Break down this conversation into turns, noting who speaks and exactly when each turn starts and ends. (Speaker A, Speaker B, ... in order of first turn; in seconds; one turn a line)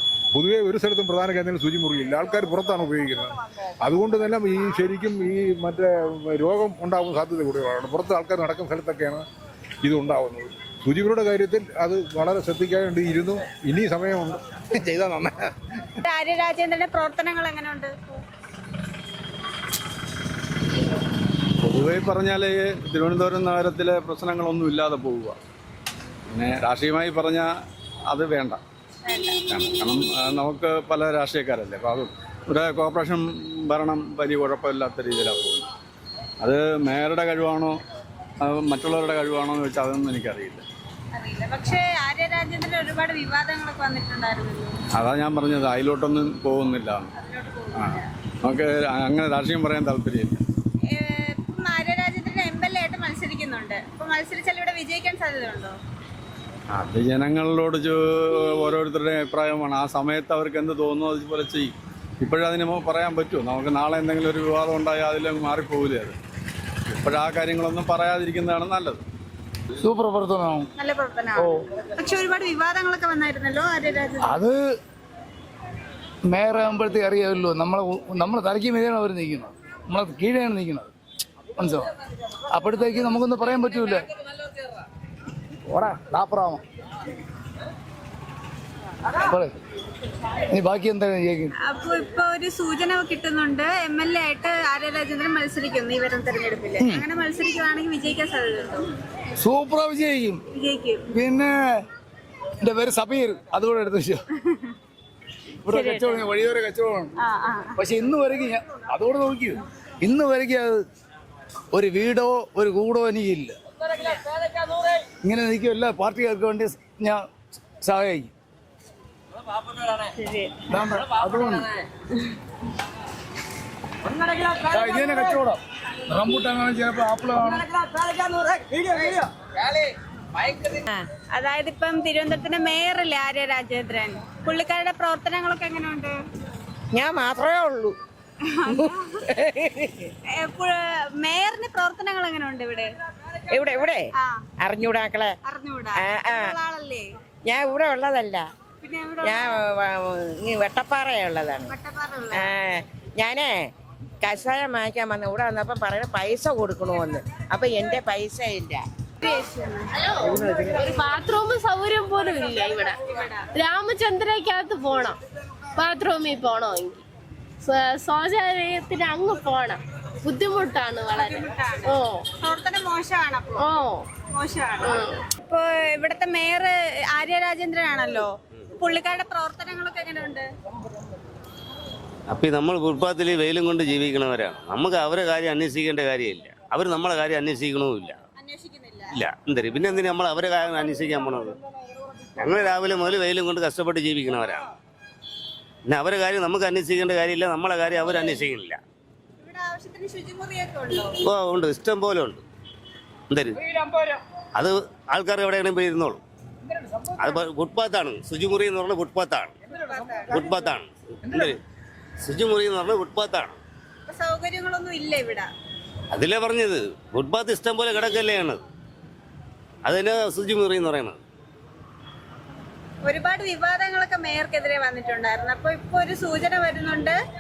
Speaker A: 0.3-9.2
Speaker A: 9.8-15.5
Speaker B: 16.0-18.2
Speaker C: 21.6-25.4
Speaker C: 26.3-27.5
Speaker C: 28.1-28.6
Speaker B: 29.1-29.4
Speaker C: 29.5-35.7
Speaker C: 36.4-37.8
Speaker C: 38.4-40.7
Speaker B: 41.1-44.8
Speaker C: 45.0-47.1
Speaker B: 47.1-48.1
Speaker C: 48.4-50.4
Speaker B: 50.9-55.8
Speaker C: 56.7-66.2
Speaker C: 66.9-69.0
Speaker D: 69.8-70.7
Speaker B: 70.8-74.4
Speaker D: 74.2-74.6
Speaker D: 76.3-80.9
Speaker D: 81.6-81.9
Speaker D: 82.5-84.1
Speaker D: 85.7-86.6
Speaker D: 89.2-89.6
Speaker D: 90.5-91.5
Speaker B: 91.6-98.9
Speaker D: 99.4-100.4
Speaker B: 100.5-101.0
Speaker D: 101.1-101.5
Speaker D: 102.6-104.2
Speaker D: 105.7-107.1
Speaker B: 105.7-106.2
Speaker B: 107.2-107.8
Speaker D: 107.8-110.9
Speaker D: 111.7-114.2
Speaker D: 115.1-117.3
Speaker D: 117.8-118.3
Speaker B: 120.2-120.5
Speaker D: 120.7-121.7
Speaker D: 124.5-127.7
Speaker E: 130.7-131.1
Speaker B: 131.3-136.1
Speaker E: 136.9-138.0
Speaker B: 138.6-139.2
Speaker E: 138.7-140.0
Speaker B: 140.4-142.9
Speaker E: 143.5-144.1
Speaker E: 144.6-145.3
Speaker B: 145.5-147.1
Speaker E: 146.0-146.5
Speaker E: 147.5-148.4
Speaker B: 148.8-149.6
Speaker E: 149.2-151.7
Speaker B: 151.7-152.5
Speaker E: 152.3-153.7
Speaker E: 154.2-158.8
Speaker B: 159.2-160.1
Speaker F: 160.1-163.0
Speaker B: 163.1-163.4
Speaker F: 163.6-165.2
Speaker F: 165.8-167.0
Speaker F: 167.6-172.2
Speaker B: 171.1-173.7
Speaker F: 173.6-174.1
Speaker B: 174.3-180.5
Speaker F: 174.8-175.2
Speaker G: 182.3-188.2
Speaker B: 188.4-189.2
Speaker G: 189.1-191.6
Speaker G: 192.4-194.7
Speaker G: 195.9-198.8
Speaker B: 199.4-201.2
Speaker G: 201.2-202.4
Speaker G: 203.3-203.6
Speaker G: 204.6-206.2
Speaker G: 207.1-209.6
Speaker B: 209.7-210.4
Speaker G: 210.3-211.6
Speaker G: 212.2-213.6
Speaker B: 214.1-215.5
Speaker G: 216.1-218.6
Speaker G: 219.8-221.2
Speaker B: 223.1-227.2